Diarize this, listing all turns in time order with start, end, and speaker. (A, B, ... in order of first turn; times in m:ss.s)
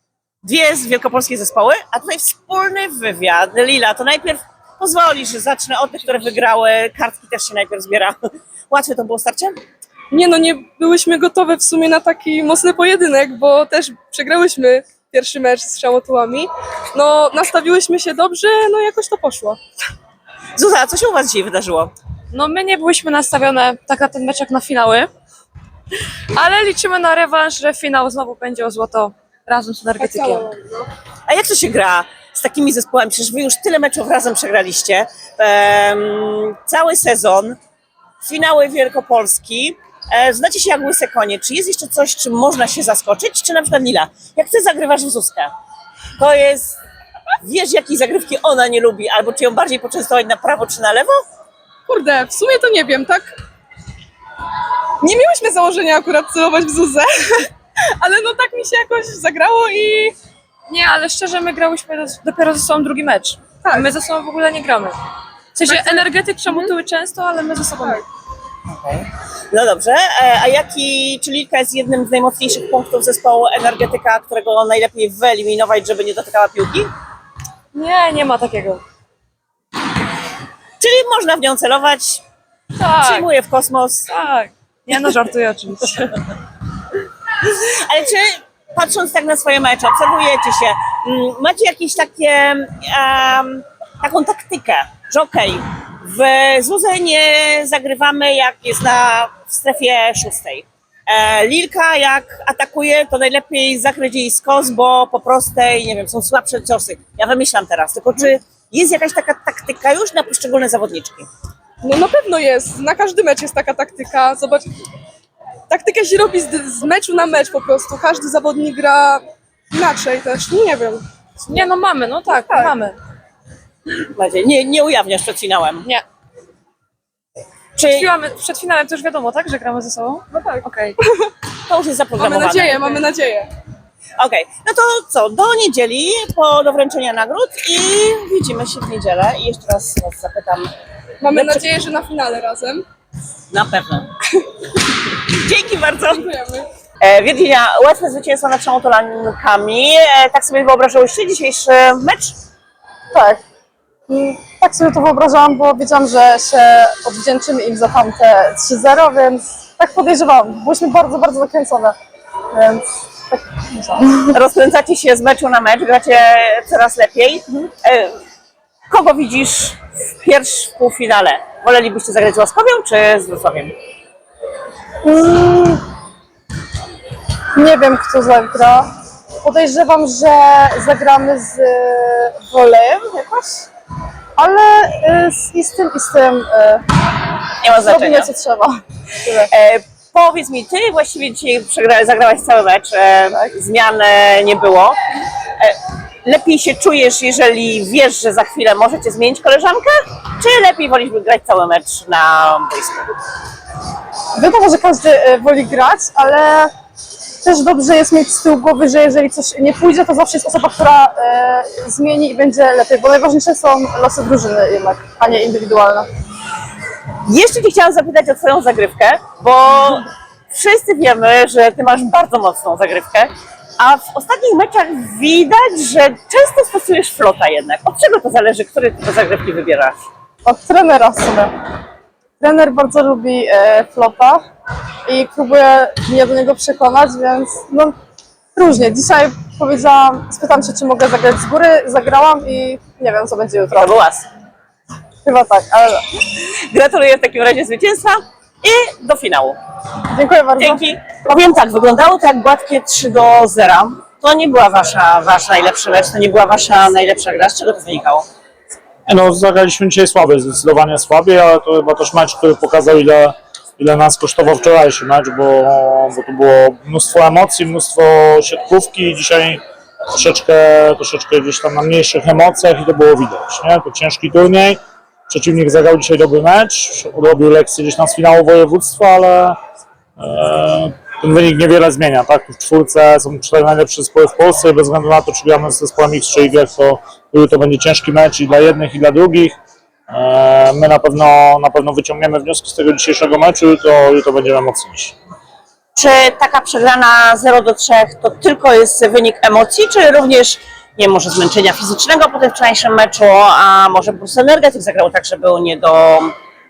0:00.4-0:09.6 A
0:10.1-0:19.6 B
0:20.6-0:21.9 A
0:22.3-0:25.1 C
0:26.4-0:30.5 C
0:30.0-0:30.9 B
0:31.3-0:37.6 A
0:38.2-0:45.5 A
0:46.2-0:46.8 A
0:47.4-0:51.2 A
0:51.9-0:53.4 B
0:55.0-1:00.2 B
1:00.7-1:05.0 C
1:05.6-1:08.0 C
1:05.6-1:06.8 B
1:09.5-1:16.9 A
1:17.7-1:18.8 C
1:20.8-1:22.2 A
1:22.8-1:23.2 C
1:23.0-1:24.1 A
1:24.1-1:26.0 C
1:27.4-1:51.3 A
1:51.8-1:54.7 B
1:55.7-2:01.0 B
2:01.5-2:03.0 C
2:02.3-2:02.7 B
2:04.2-2:05.9 A
2:07.8-2:08.2 A
2:08.0-2:10.9 C
2:10.3-2:11.3 B
2:11.7-2:13.0 A
2:12.2-2:13.5 B
2:14.2-2:20.7 A
2:21.2-2:22.8 B
2:21.3-2:21.7 A
2:23.5-2:24.1 A
2:25.3-2:26.3 A
2:26.1-2:26.7 B
2:27.0-2:32.4 A
2:33.1-2:33.4 D
2:34.1-2:42.0 D
2:42.5-2:42.8 A
2:43.3-2:44.3 D
2:44.3-2:48.1 A
2:48.9-2:53.8 A
2:55.0-2:55.8 D
2:57.6-2:58.9 D
2:59.4-3:03.7 D
3:04.4-3:06.8 D
3:07.6-3:08.3 A
3:07.8-3:09.5 D
3:09.5-3:15.0 A
3:15.6-3:23.1 A
3:24.4-3:26.7 D
3:27.4-3:36.1 D
3:37.2-3:50.0 A
3:50.4-3:51.5 D
3:52.4-3:54.4 D
3:55.1-3:58.0 D
3:58.6-4:03.9 D
4:03.7-4:04.3 A
4:05.2-4:06.0 D
4:06.3-4:09.6 A
4:10.1-4:10.8 D
4:10.6-4:18.3 A
4:19.1-4:29.6 E
4:30.1-4:34.8 E
4:35.3-4:39.6 E
4:40.2-4:49.6 E
4:50.1-4:55.2 E
4:56.0-5:06.3 A